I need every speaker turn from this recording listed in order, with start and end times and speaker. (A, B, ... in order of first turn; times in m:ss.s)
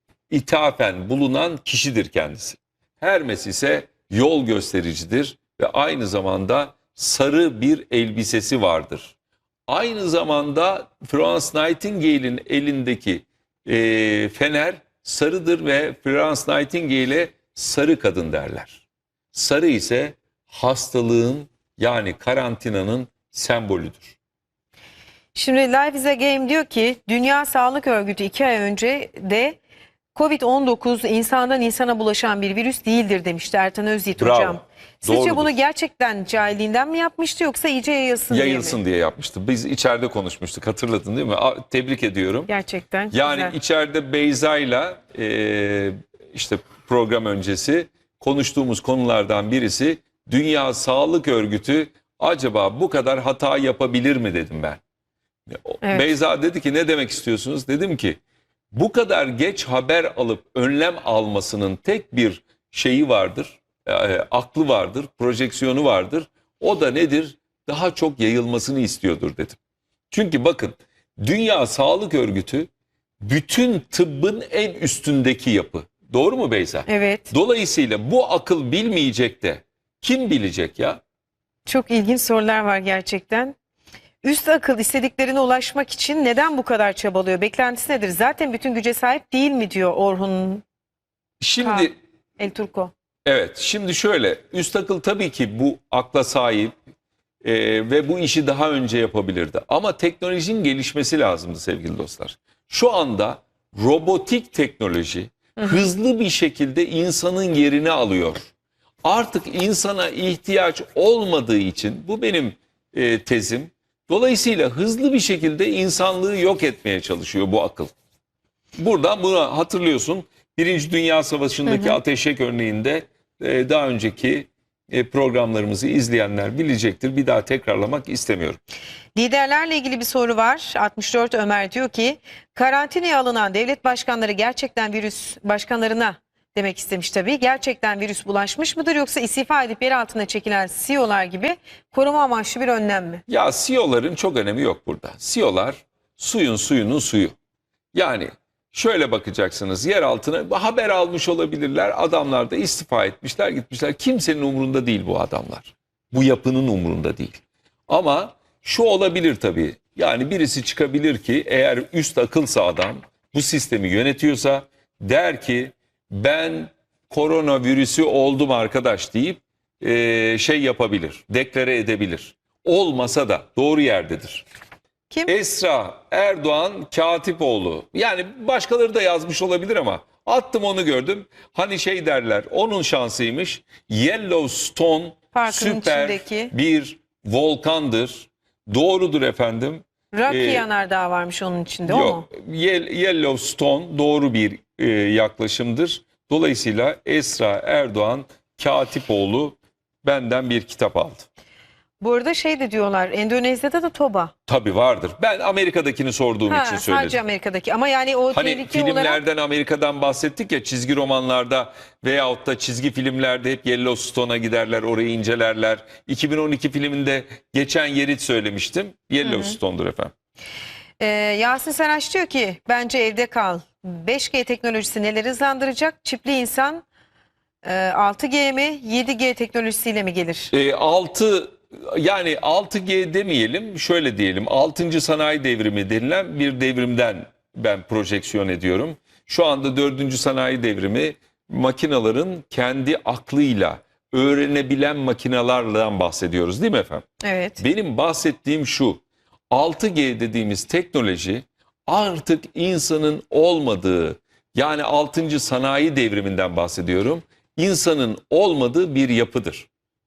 0:00.3-0:09.1 A
0:09.7-0:18.8 A
0:19.3-0:24.2 A
0:25.3-0:29.6 B
0:30.1-0:38.8 B
0:34.2-0:35.5 A
0:38.3-0:42.5 A
0:42.5-0:43.5 B
0:43.1-0:54.8 A
0:55.5-0:58.2 A
0:58.7-1:09.6 A
1:10.1-1:12.7 A
1:13.2-1:21.0 A
1:16.9-1:17.3 B
1:21.6-1:23.6 B
1:24.2-1:30.6 B
1:31.4-1:31.9 A
1:31.6-1:32.9 B
1:33.2-1:36.7 A
1:37.4-1:48.5 A
1:49.0-1:57.9 A
1:58.8-2:08.6 A
2:01.6-2:02.0 B
2:09.1-2:23.2 B
2:23.3-2:27.3 A
2:27.9-2:54.4 A
2:55.3-3:10.6 A
3:05.3-3:06.5 B
3:10.1-3:12.2 B
3:11.9-3:21.3 A
3:22.0-3:24.3 B
3:24.5-3:27.2 A
3:26.5-3:29.2 B
3:28.3-3:40.1 A
3:39.2-3:39.6 B
3:41.0-3:46.8 B
3:47.6-3:50.5 B
3:50.5-4:07.0 A
4:07.2-4:07.6 B
4:07.6-4:19.7 A